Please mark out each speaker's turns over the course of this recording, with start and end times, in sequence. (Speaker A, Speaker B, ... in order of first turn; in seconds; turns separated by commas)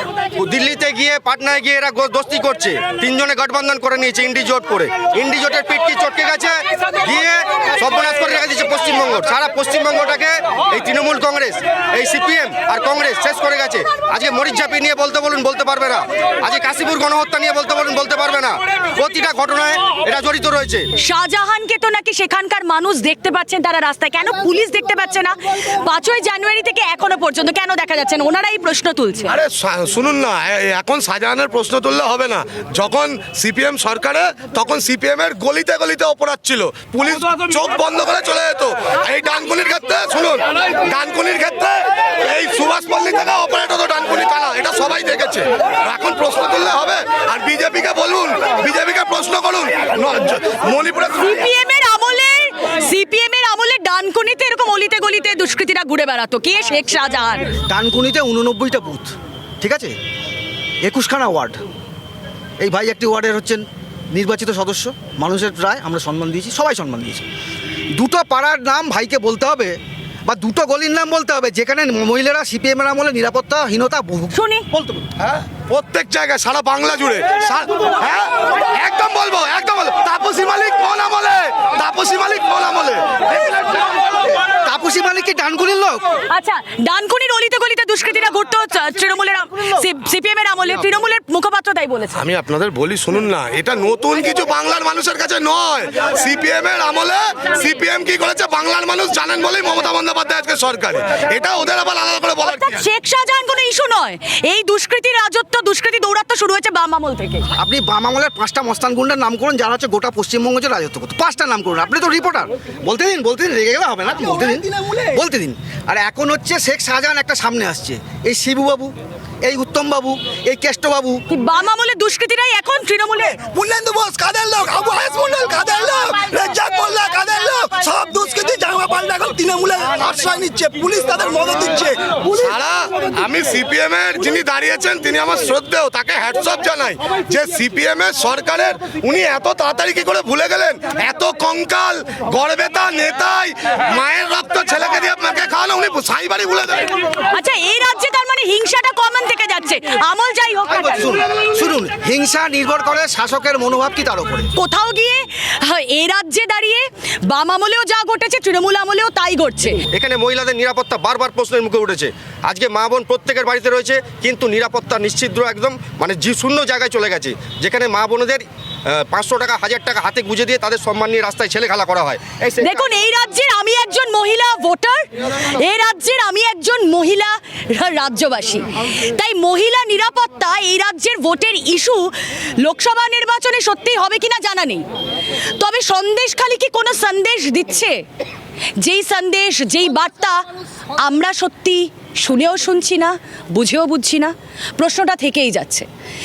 Speaker A: 0.4-20.9, Speaker B: 21.0-29.4, Speaker C: 29.3-51.5, Speaker B: 51.2-57.5, Speaker D: 57.7-59.9, Speaker D: 60.8-61.6, Speaker D: 62.6-67.2, Speaker D: 68.0-75.1, Speaker B: 74.3-74.7, Speaker C: 75.2-83.8, Speaker D: 84.6-86.0, Speaker B: 86.3-92.2, Speaker C: 92.2-102.9, Speaker B: 102.5-107.5, Speaker D: 107.6-118.9, Speaker E: 114.2-115.2, Speaker D: 119.4-121.2, Speaker B: 121.3-123.4, Speaker E: 123.5-132.0, Speaker C: 132.3-146.9, Speaker B: 147.3-151.1, Speaker D: 150.7-154.5, Speaker B: 154.6-159.8, Speaker A: 159.9-172.8, Speaker B: 172.6-182.1, Speaker B: 182.6-184.8, Speaker B: 185.4-188.0, Speaker B: 188.8-190.4, Speaker B: 191.0-195.9